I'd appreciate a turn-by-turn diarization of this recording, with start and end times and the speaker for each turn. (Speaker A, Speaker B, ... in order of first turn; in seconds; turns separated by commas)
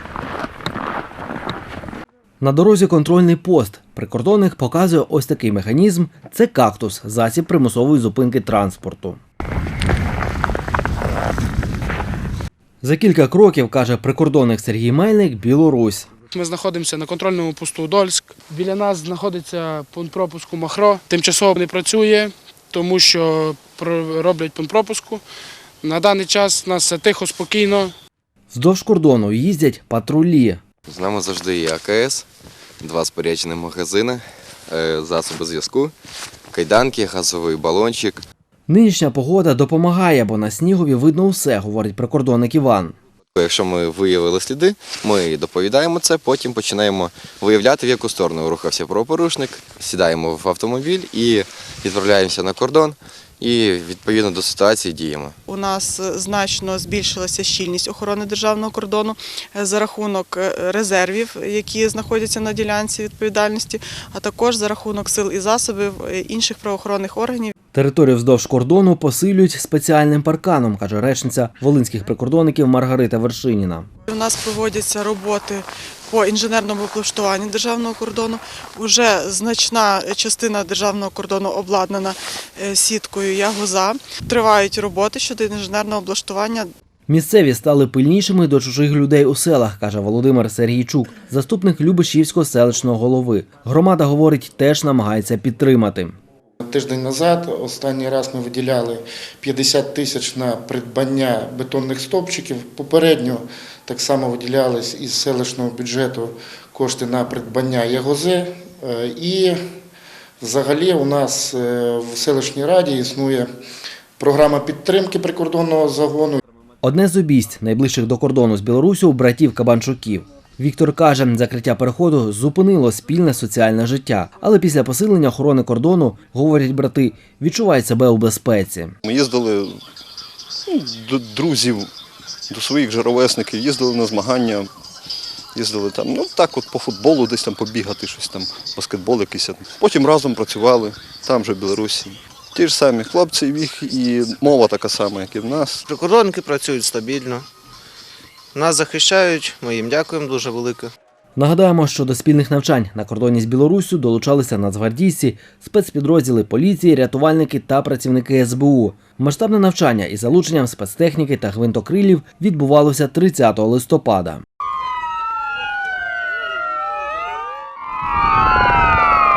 Speaker A: 2.4-9.2, Speaker A: 12.8-16.1, Speaker B: 16.3-25.2, Speaker B: 25.8-27.9, Speaker A: 28.5-30.6, Speaker C: 30.9-32.2, Speaker C: 32.8-35.9, Speaker C: 36.5-38.2, Speaker A: 38.7-43.0, Speaker C: 43.3-55.4, Speaker D: 55.5-67.5, Speaker A: 67.7-73.9, Speaker D: 74.1-86.7, Speaker A: 87.1-96.2, Speaker E: 96.6-109.6, Speaker E: 110.4-113.5, Speaker E: 114.2-116.4, Speaker A: 116.8-128.9, Speaker F: 129.0-129.8, Speaker F: 130.7-131.9, Speaker F: 132.5-134.7, Speaker F: 135.6-145.8, Speaker G: 145.9-147.5, Speaker G: 148.5-150.9, Speaker A: 151.4-164.4